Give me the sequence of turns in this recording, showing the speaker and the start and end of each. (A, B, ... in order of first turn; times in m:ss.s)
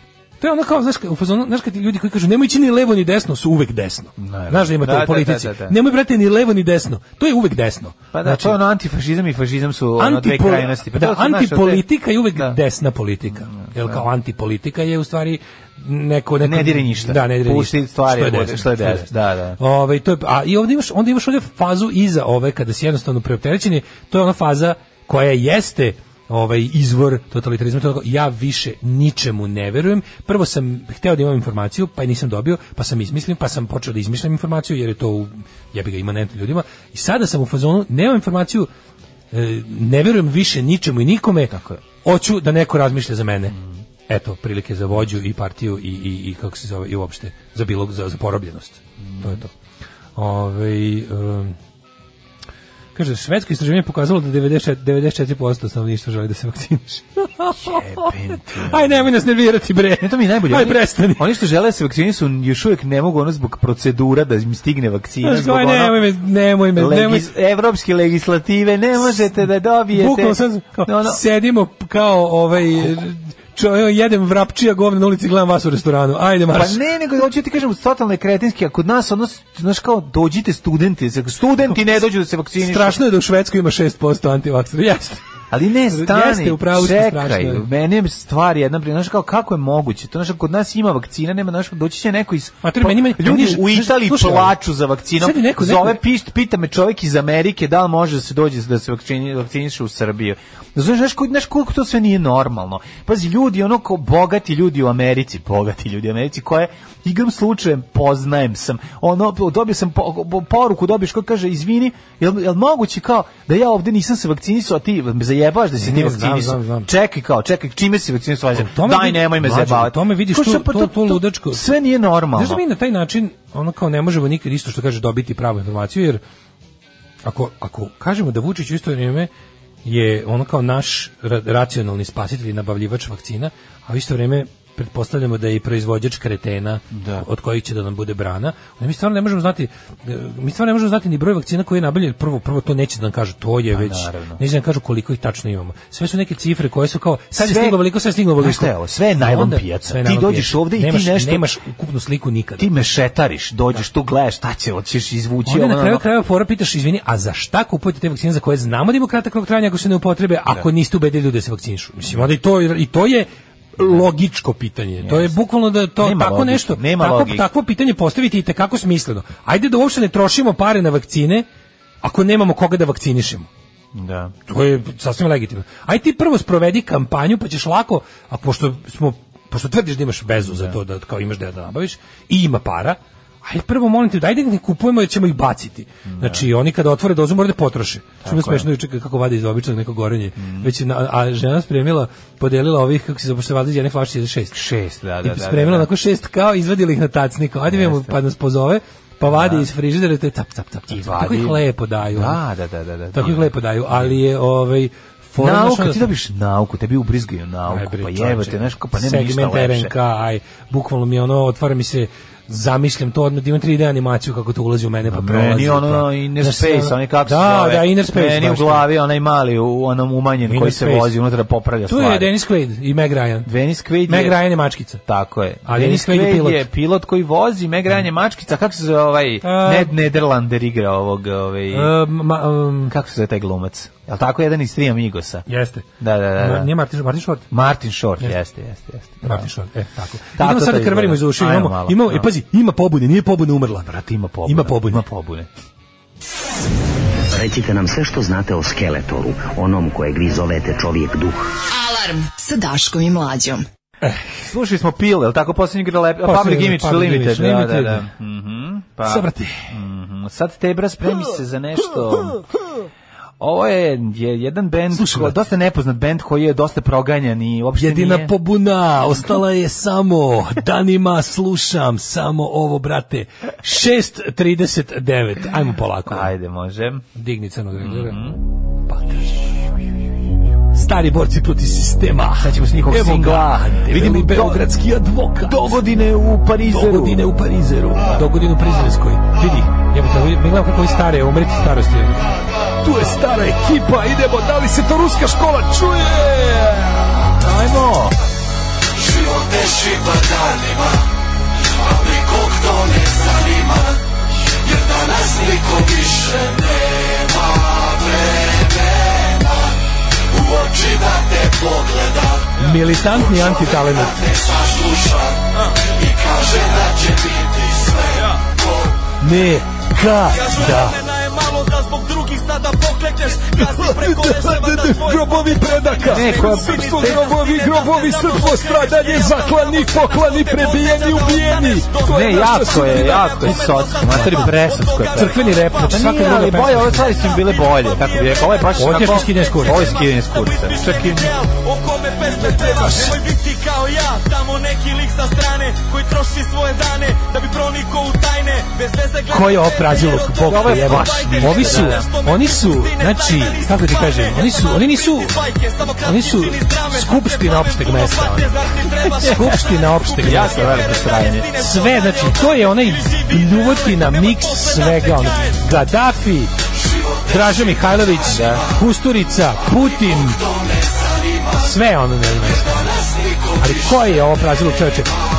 0:00.4-0:08.6 A
0:04.2-0:05.8 B
0:08.1-0:11.8 B
0:10.0-0:38.7 A
0:13.4-0:14.0 B
0:16.4-0:19.6 B
0:39.3-0:43.6 A
0:41.5-0:41.8 B
0:44.1-0:49.5 A
0:49.0-0:49.4 B
0:50.2-0:51.6 A
0:53.0-1:01.3 A
0:57.6-0:59.1 B
1:00.0-1:06.0 B
1:05.2-1:07.3 A
1:06.8-1:11.2 B
1:09.9-1:16.8 A
1:16.5-1:23.0 B
1:22.6-1:25.2 A
1:25.5-2:02.6 B
1:25.9-1:27.7 A
1:32.6-1:34.6 A
1:35.2-1:36.0 A
1:55.8-1:56.9 A
1:58.6-2:01.7 A
2:02.3-2:06.2 A
2:07.2-2:09.3 A
2:09.8-2:32.7 A
2:16.9-2:17.3 B
2:23.7-2:24.4 B
2:27.4-2:27.8 B
2:28.4-2:31.5 B
2:32.6-2:36.1 B
2:35.5-2:51.5 A
2:45.0-2:45.3 B
2:46.0-2:47.5 B
2:52.0-2:53.5 A
2:53.9-2:54.3 B
2:54.5-3:14.6 A
3:06.1-3:06.5 B
3:08.2-3:08.7 B
3:10.4-3:10.7 B
3:14.5-3:15.9 B
3:15.2-3:22.4 A
3:17.7-3:18.1 B
3:19.3-3:19.7 B
3:20.9-3:21.6 B
3:22.1-3:24.1 B
3:23.1-3:26.1 A
3:25.4-3:29.9 B
3:27.7-3:38.9 A
3:35.1-3:42.3 B
3:40.5-3:41.1 A
3:41.9-3:43.5 A
3:43.5-3:44.4 B
3:44.1-3:45.0 A
3:45.1-3:51.9 B
3:45.7-3:46.7 A
3:49.4-3:50.0 A
3:51.7-3:53.0 A
3:52.9-3:55.5 B
3:55.5-3:57.5 A
3:56.0-3:56.7 B
3:57.5-3:59.5 B
3:59.2-4:05.0 A
4:00.4-4:02.3 B
4:03.9-4:05.5 B
4:07.3-4:11.5 C
4:11.7-4:13.6 D
4:14.4-4:22.4 B
4:16.2-4:18.1 A
4:19.0-4:19.7 A
4:23.4-4:28.3 B
4:24.9-4:25.4 A
4:27.8-4:36.3 A
4:36.1-4:37.0 B
4:37.2-4:38.2 A
4:37.8-4:38.4 B
4:38.8-4:39.5 A
4:40.7-4:45.9 A
4:42.4-4:44.6 B
4:45.4-4:47.3 B
4:46.7-4:57.2 A
4:57.4-4:58.2 B
4:59.4-5:00.6 A
5:02.4-5:02.9 A
5:05.2-5:05.9 A
5:12.6-5:14.8 A
5:18.1-5:18.4 E
5:19.2-5:21.0 A
5:20.3-5:36.0 E
5:23.6-5:37.2 A
5:26.1-5:27.4 B
5:32.0-5:41.4 B
5:37.0-6:05.6 E
5:38.7-5:40.0 A
5:42.4-5:43.2 A
5:49.3-5:55.4 A
5:50.4-5:52.1 B
5:56.0-5:58.6 A
5:59.2-6:01.0 A
5:59.2-5:59.6 B
6:00.2-6:01.5 B
6:01.5-6:06.5 A
6:07.2-6:10.4 A
6:08.3-6:08.7 B
6:11.5-6:15.2 A